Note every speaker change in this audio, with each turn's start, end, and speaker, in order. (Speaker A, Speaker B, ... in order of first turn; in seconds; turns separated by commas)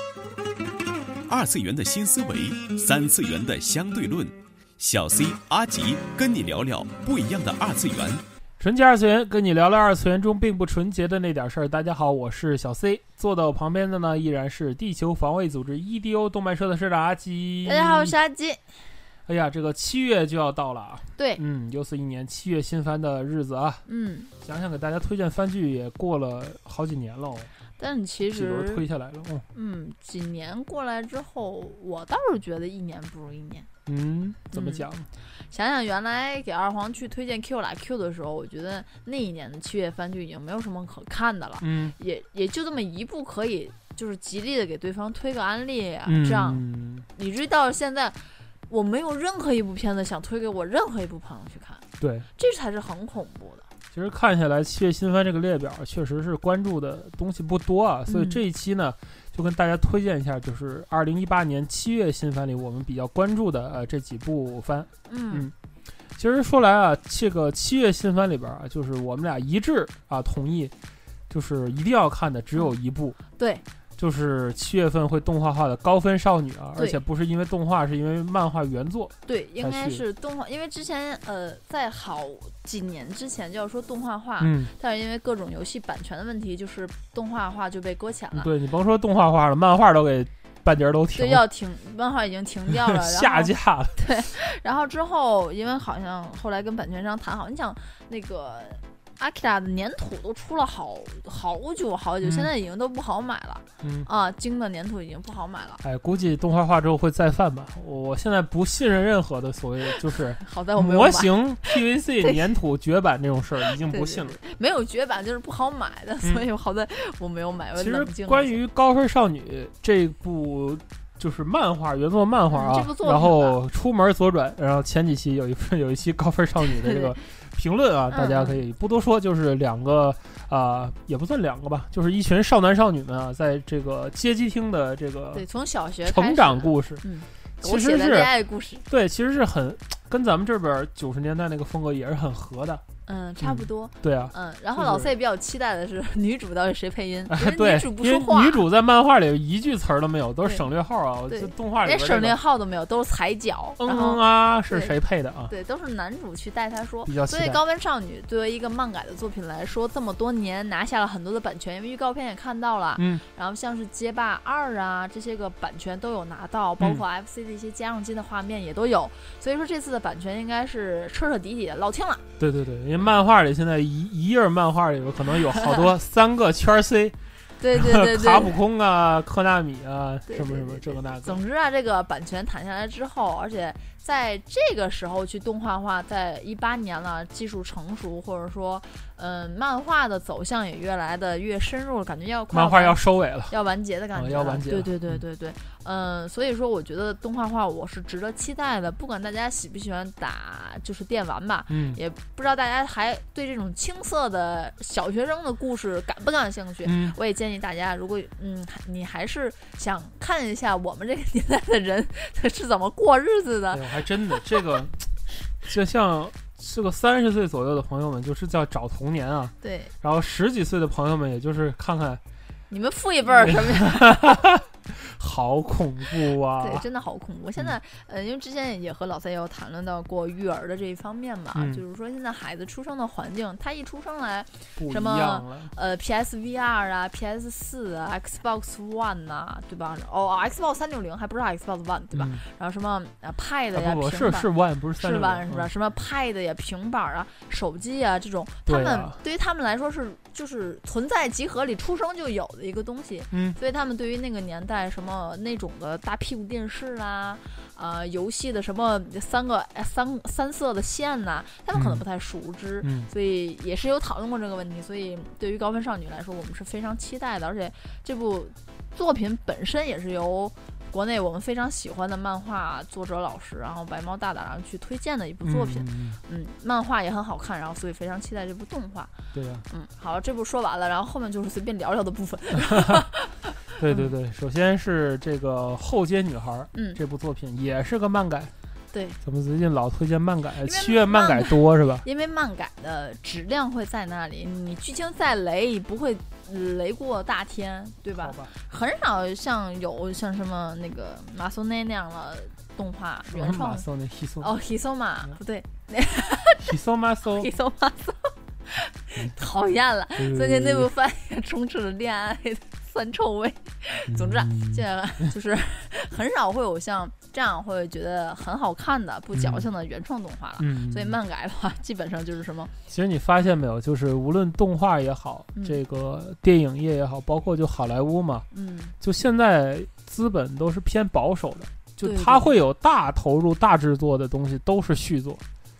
Speaker A: 1.3-8.2, Speaker B: 8.6-18.1, Speaker C: 17.6-18.6, Speaker B: 19.2-23.8, Speaker C: 21.1-21.4, Speaker C: 23.9-24.3, Speaker B: 24.4-27.5, Speaker C: 27.8-28.8, Speaker B: 28.2-29.4, Speaker C: 29.5-33.7, Speaker B: 33.9-35.1, Speaker C: 34.5-34.9, Speaker C: 35.5-46.6, Speaker B: 41.6-42.0, Speaker B: 46.0-47.1, Speaker C: 47.1-53.6, Speaker B: 52.0-52.3, Speaker B: 53.9-65.5, Speaker C: 58.1-58.4, Speaker C: 65.1-65.5, Speaker B: 66.2-70.7, Speaker B: 71.3-73.2, Speaker C: 73.4-73.6, Speaker B: 74.0-80.0, Speaker C: 79.2-88.5, Speaker B: 84.4-84.7, Speaker B: 88.3-91.4, Speaker C: 91.1-105.8, Speaker B: 92.8-94.0, Speaker B: 102.2-102.5, Speaker B: 103.8-104.1, Speaker B: 105.8-114.4, Speaker C: 110.0-112.4, Speaker C: 113.8-118.6, Speaker B: 117.8-135.4, Speaker C: 122.5-123.6, Speaker C: 126.8-127.1, Speaker C: 128.1-128.6, Speaker C: 135.3-138.8, Speaker B: 136.1-137.0, Speaker B: 137.6-138.3, Speaker B: 138.9-142.8, Speaker C: 143.1-148.6, Speaker B: 143.4-145.1, Speaker B: 147.3-152.4, Speaker C: 151.3-154.9, Speaker B: 153.8-155.5, Speaker C: 155.5-172.2, Speaker B: 157.1-157.6, Speaker B: 163.0-163.2, Speaker B: 172.4-177.2, Speaker C: 177.6-178.6, Speaker B: 177.7-181.4, Speaker C: 180.3-214.4, Speaker B: 192.5-193.5, Speaker B: 194.1-195.2, Speaker B: 201.7-202.0, Speaker B: 206.8-207.2, Speaker B: 213.7-215.1, Speaker B: 215.6-222.2, Speaker C: 219.6-219.9, Speaker C: 222.7-224.3, Speaker B: 223.2-226.8, Speaker C: 226.6-279.1, Speaker B: 231.5-231.8, Speaker B: 234.8-235.7, Speaker B: 242.1-242.4, Speaker B: 243.7-245.7, Speaker B: 248.7-249.2, Speaker B: 253.3-253.6, Speaker B: 261.7-262.0, Speaker B: 262.8-263.1, Speaker B: 275.4-276.2, Speaker B: 279.3-279.6, Speaker C: 279.7-284.1, Speaker B: 283.8-288.5, Speaker C: 286.7-287.0, Speaker C: 288.9-289.2, Speaker B: 289.2-292.0, Speaker C: 290.6-303.8, Speaker B: 298.2-298.5, Speaker B: 303.3-304.5, Speaker C: 304.4-306.8, Speaker B: 306.6-307.5, Speaker C: 307.3-322.7, Speaker B: 310.2-310.9, Speaker B: 314.1-314.8, Speaker B: 319.3-319.7, Speaker B: 320.6-321.1, Speaker B: 322.9-328.4, Speaker C: 325.5-325.8, Speaker C: 328.5-328.9, Speaker B: 329.0-335.4, Speaker C: 332.0-332.5